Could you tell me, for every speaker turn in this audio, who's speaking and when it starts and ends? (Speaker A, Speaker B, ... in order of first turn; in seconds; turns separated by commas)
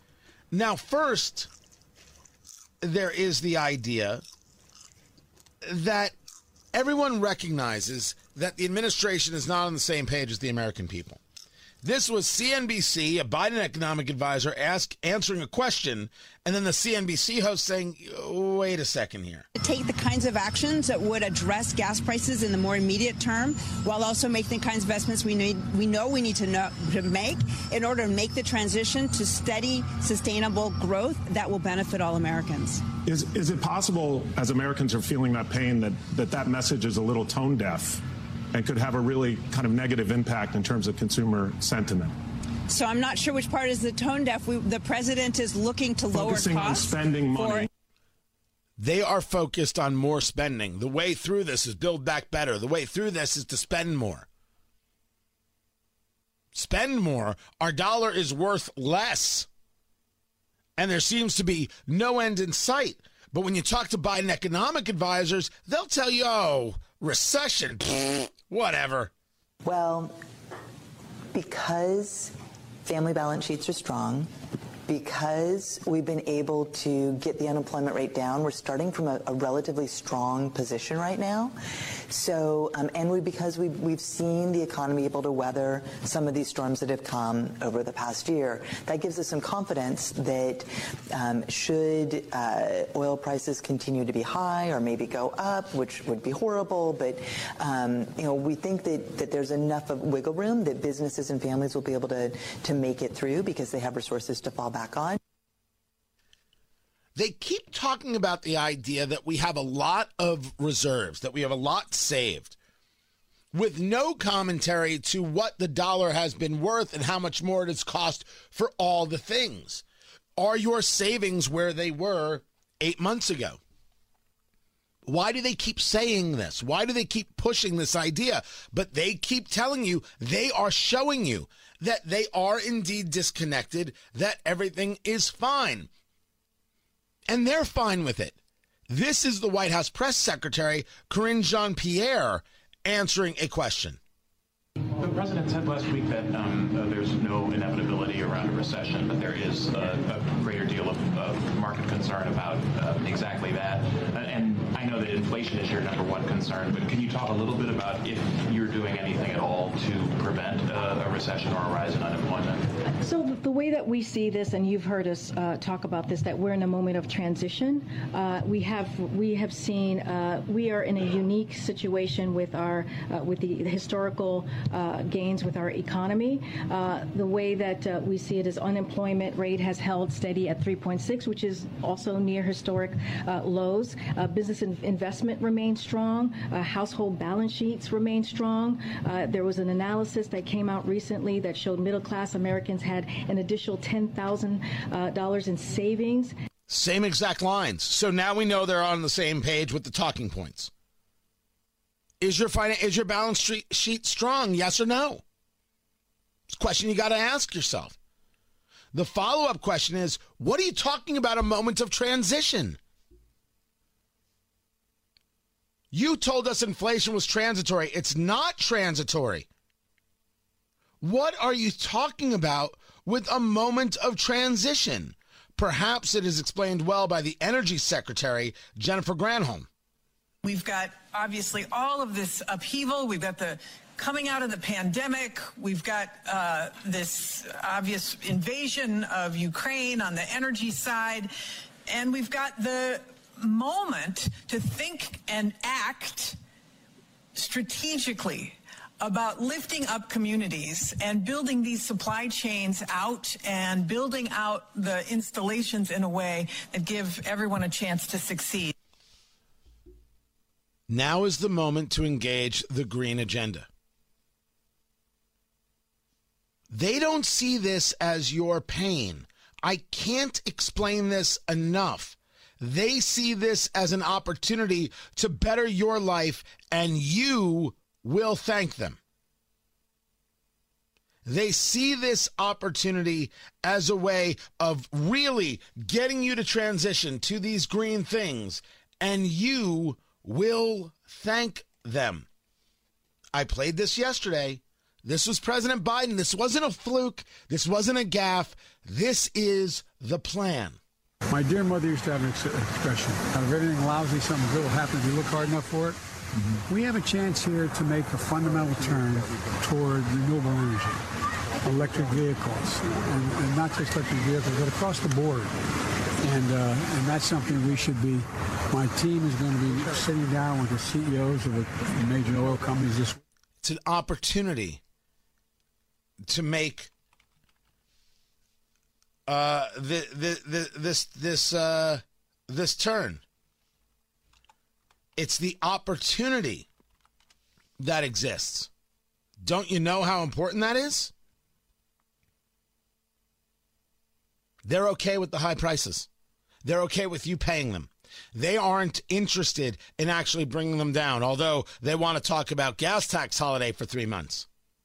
Speaker A: 0.5-1.5, Speaker A: 2.8-4.2, Speaker A: 5.6-6.2, Speaker A: 6.7-11.2, Speaker A: 11.8-19.5, Speaker B: 19.6-32.8, Speaker C: 33.1-38.0, Speaker C: 38.5-42.2, Speaker B: 42.7-47.7, Speaker C: 46.1-47.7, Speaker A: 48.8-54.3, Speaker A: 56.5-59.5, Speaker A: 60.8-69.1, Speaker D: 69.6-70.2, Speaker D: 71.3-72.3, Speaker D: 72.8-74.3, Speaker D: 74.9-81.5, Speaker D: 82.1-105.2, Speaker A: 107.2-112.6, Speaker A: 113.5-119.8, Speaker A: 120.4-123.6, Speaker A: 125.0-135.9, Speaker A: 137.3-138.4, Speaker A: 138.9-144.0, Speaker E: 145.0-162.7, Speaker F: 163.0-196.3, Speaker A: 196.7-200.7, Speaker A: 202.2-205.2, Speaker A: 206.5-208.0, Speaker A: 208.9-212.8, Speaker A: 215.9-219.5, Speaker A: 221.0-229.7, Speaker G: 230.4-241.3, Speaker G: 241.9-246.4, Speaker G: 247.3-258.8, Speaker A: 260.9-263.7, Speaker A: 266.7-279.0, Speaker A: 281.3-292.3, Speaker A: 293.3-300.8, Speaker H: 301.3-306.0, Speaker H: 306.6-311.0, Speaker H: 311.6-315.5, Speaker H: 316.2-323.2, Speaker A: 323.6-324.8, Speaker A: 326.3-326.9, Speaker A: 329.3-333.2, Speaker A: 335.2-336.7, Speaker A: 337.8-338.7, Speaker A: 339.4-341.1, Speaker A: 344.6-346.1, Speaker A: 346.6-354.5